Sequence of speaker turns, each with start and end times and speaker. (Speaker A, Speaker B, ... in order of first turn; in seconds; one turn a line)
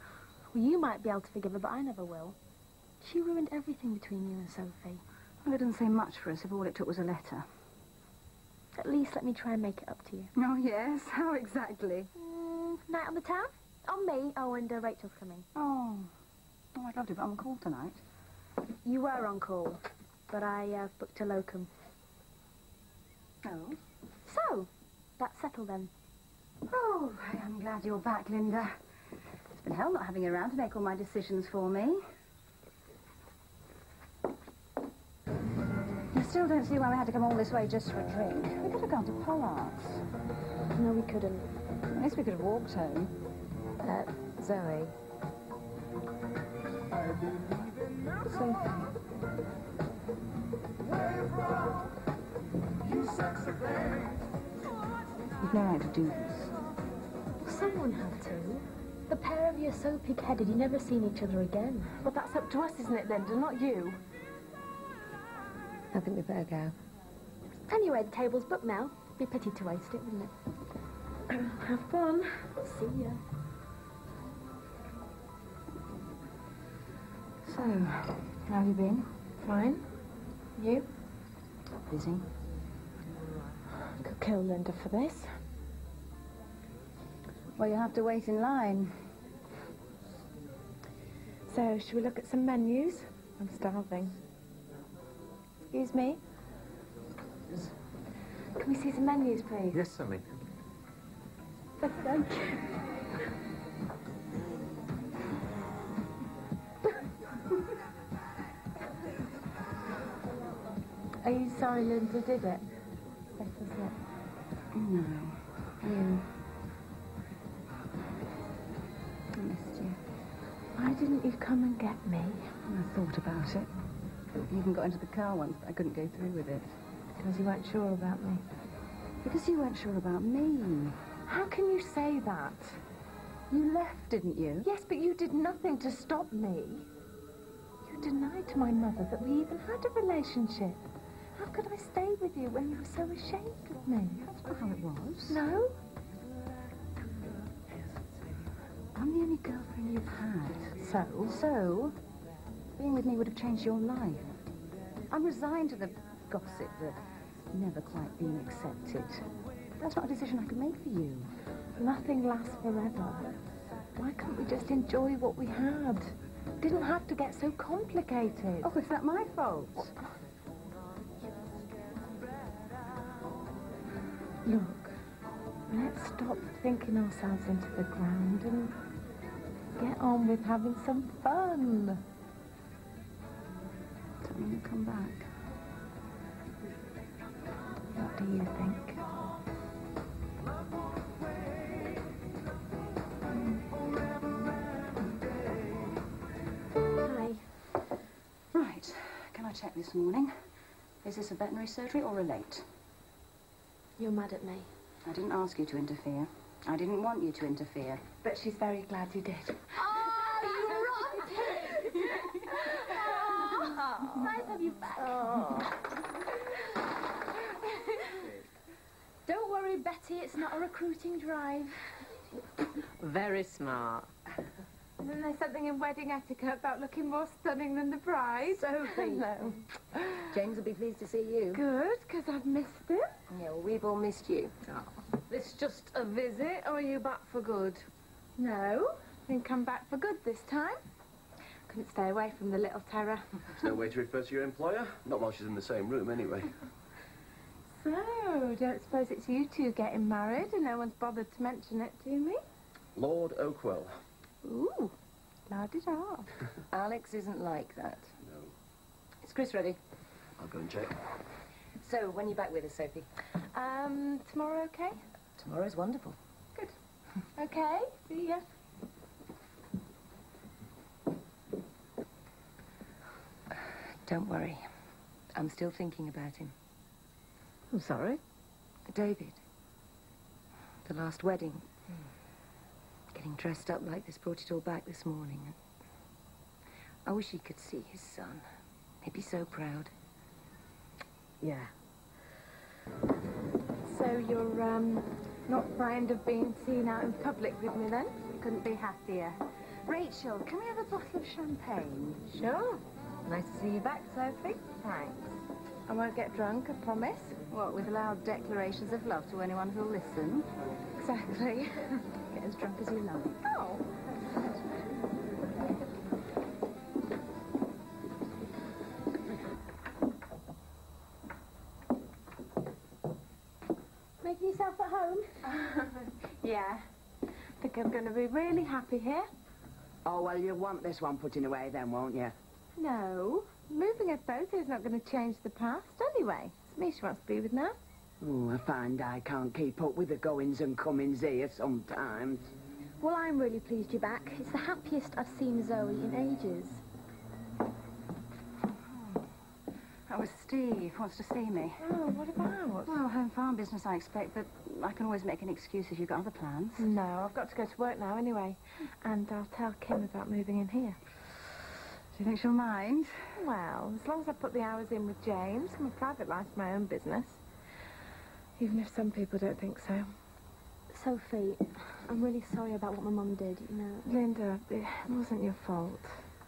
Speaker A: 0.5-2.4
Speaker A: 3.0-5.0
Speaker B: 5.4-7.5
Speaker A: 8.8-10.3
Speaker B: 10.3-12.1
Speaker A: 12.2-15.5
Speaker B: 15.6-16.1
Speaker B: 16.8-18.0
Speaker A: 18.9-21.7
Speaker B: 23.4-23.8
Speaker A: 24.3-25.9
Speaker B: 26.7-28.7
Speaker B: 29.6-32.0
Speaker B: 36.1-40.0
Speaker A: 40.8-41.5
Speaker B: 41.9-43.1
Speaker A: 43.8-44.9
Speaker B: 48.3-48.8
Speaker B: 55.4-56.5
Speaker A: 57.4-61.9
Speaker C: 62.0-64.0
Speaker D: 65.9-66.8
Speaker A: 67.7-70.3
Speaker C: 71.3-72.5
Speaker A: 72.6-73.2
Speaker B: 77.5-79.2
Speaker C: 79.4-79.9
Speaker C: 80.6-80.9
Speaker B: 81.9-82.3
Speaker C: 83.9-85.3
Speaker B: 87.6-89.1
Speaker C: 91.5-94.2
Speaker C: 95.7-96.2
Speaker C: 98.6-99.9
Speaker A: 101.8-102.6
Speaker C: 111.2-112.7
Speaker C: 113.4-114.0
Speaker B: 114.7-116.3
Speaker B: 119.3-120.0
Speaker C: 120.8-122.6
Speaker B: 122.7-123.7
Speaker B: 124.5-126.8
Speaker C: 127.2-128.4
Speaker B: 129.2-131.0
Speaker C: 131.2-132.8
Speaker B: 133.5-134.7
Speaker C: 134.6-136.9
Speaker C: 137.8-140.8
Speaker C: 141.3-144.3
Speaker B: 144.3-145.4
Speaker C: 145.3-145.8
Speaker B: 148.9-152.0
Speaker C: 150.8-151.3
Speaker B: 152.8-154.4
Speaker B: 155.1-157.0
Speaker B: 157.5-159.3
Speaker B: 159.8-161.3
Speaker C: 161.8-163.3
Speaker C: 163.9-168.7
Speaker B: 168.6-169.9
Speaker C: 174.4-175.0
Speaker C: 175.7-178.8
Speaker C: 179.8-182.0
Speaker B: 184.2-185.3
Speaker C: 187.9-189.0
Speaker A: 197.0-197.6
Speaker B: 198.5-200.3
Speaker B: 201.0-202.7
Speaker A: 204.0-204.7
Speaker B: 205.1-208.0
Speaker C: 208.2-213.8
Speaker A: 210.0-215.7
Speaker C: 215.0-215.7
Speaker C: 217.7-218.1
Speaker A: 219.3-222.1
Speaker D: 223.0-224.1
Speaker C: 225.0-230.3
Speaker B: 228.6-229.3
Speaker B: 230.3-231.6
Speaker C: 231.5-233.2
Speaker D: 233.3-234.5
Speaker D: 235.3-237.8
Speaker C: 238.4-240.8
Speaker C: 241.7-243.7
Speaker E: 243.6-246.6
Speaker C: 247.8-252.4
Speaker E: 253.0-254.0
Speaker C: 254.5-254.9
Speaker C: 255.5-256.3
Speaker D: 256.7-258.1
Speaker D: 259.2-259.8
Speaker E: 260.4-260.9
Speaker D: 261.8-263.1
Speaker C: 263.5-265.0
Speaker D: 265.4-266.2
Speaker C: 267.4-268.4
Speaker D: 274.1-274.6
Speaker D: 275.4-276.5
Speaker D: 277.7-278.2
Speaker D: 278.9-279.4
Speaker D: 280.9-281.7
Speaker D: 283.1-285.6
Speaker D: 287.1-288.4
Speaker D: 289.0-289.9
Speaker C: 293.8-298.2
Speaker B: 298.4-302.2
Speaker C: 302.3-302.8
Speaker D: 303.3-304.9
Speaker C: 304.9-305.2
Speaker C: 305.9-307.4
Speaker B: 307.5-310.5
Speaker C: 311.0-312.1
Speaker B: 312.3-313.4
Speaker C: 313.4-313.9
Speaker A: 324.2-325.3
Speaker C: 325.5-326.9
Speaker C: 327.6-329.3
Speaker F: 330.1-332.3
Speaker C: 332.8-337.8
Speaker F: 338.2-342.4
Speaker A: 343.0-346.8
Speaker B: 348.7-349.2
Speaker B: 350.1-351.9
Speaker C: 351.8-353.0
Speaker B: 352.9-356.9
Speaker C: 356.8-361.0
Speaker B: 362.1-363.1
Speaker C: 363.4-367.4
Speaker C: 368.6-370.1
Speaker A: 370.9-374.1
Speaker C: 374.1-376.2